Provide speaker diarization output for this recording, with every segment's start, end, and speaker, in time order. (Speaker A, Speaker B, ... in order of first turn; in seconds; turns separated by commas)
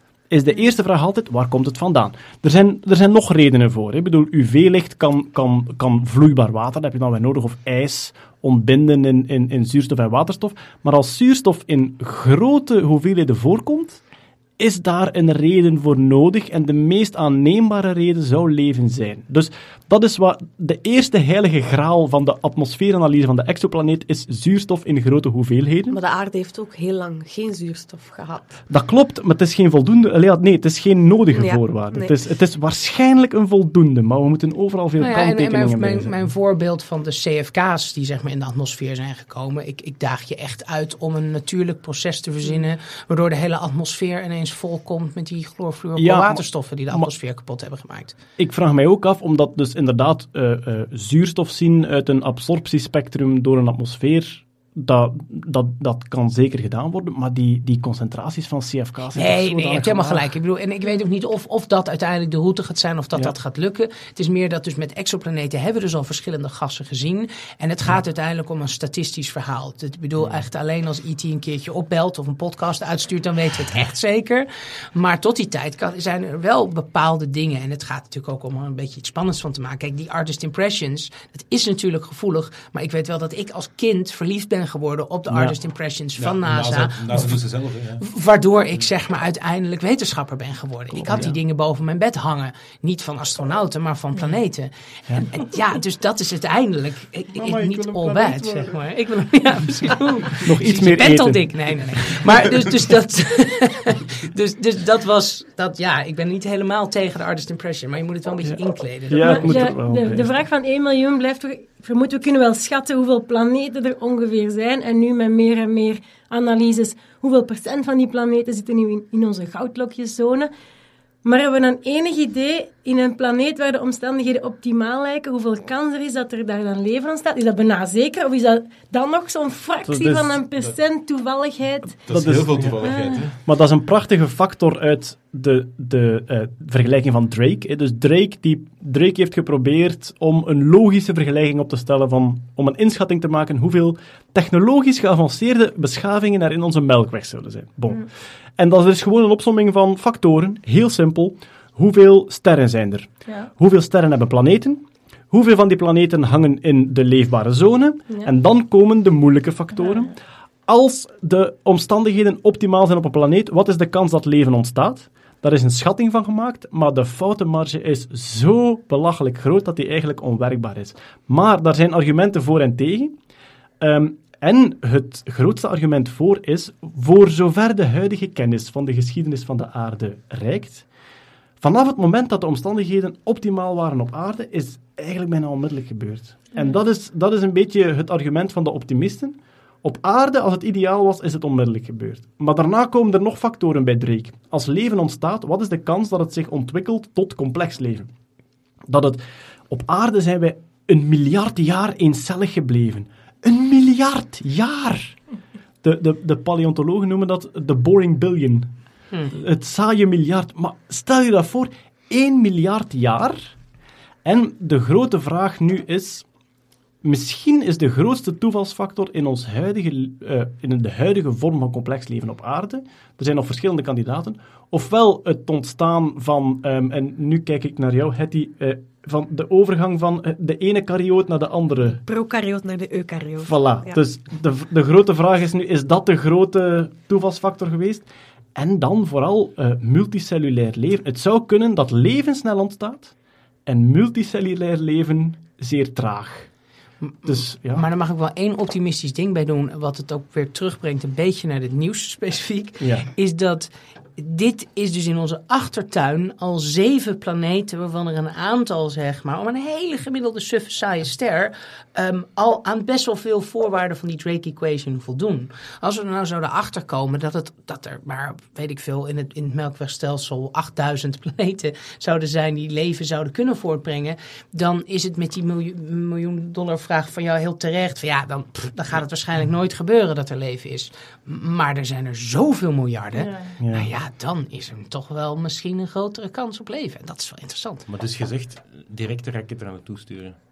Speaker A: 0.3-14.0, Speaker A: 14.6-26.0, Speaker B: 25.9-28.6, Speaker A: 28.7-36.2, Speaker B: 31.3-32.1, Speaker C: 35.0-48.2, Speaker A: 46.0-47.1, Speaker A: 48.4-60.3, Speaker C: 59.2-87.4, Speaker D: 86.2-88.0, Speaker C: 88.0-109.6, Speaker A: 90.9-91.4, Speaker A: 97.4-98.8, Speaker A: 100.3-101.5, Speaker A: 109.1-110.4, Speaker E: 109.2-120.5, Speaker E: 121.2-132.1, Speaker A: 129.8-130.4, Speaker D: 132.1-133.4, Speaker A: 132.1-160.2, Speaker E: 132.8-133.2, Speaker E: 159.8-160.1, Speaker A: 160.7-173.1, Speaker A: 173.8-180.9, Speaker A: 181.6-198.1, Speaker A: 198.9-205.2, Speaker A: 205.8-208.7, Speaker A: 209.3-213.5, Speaker A: 214.2-216.3, Speaker A: 217.0-232.0, Speaker B: 232.1-234.0, Speaker A: 233.4-243.1, Speaker A: 243.7-246.5, Speaker C: 247.0-287.9, Speaker A: 247.2-247.8, Speaker A: 252.8-253.1, Speaker E: 283.1-283.6, Speaker A: 283.6-283.9, Speaker D: 287.9-290.4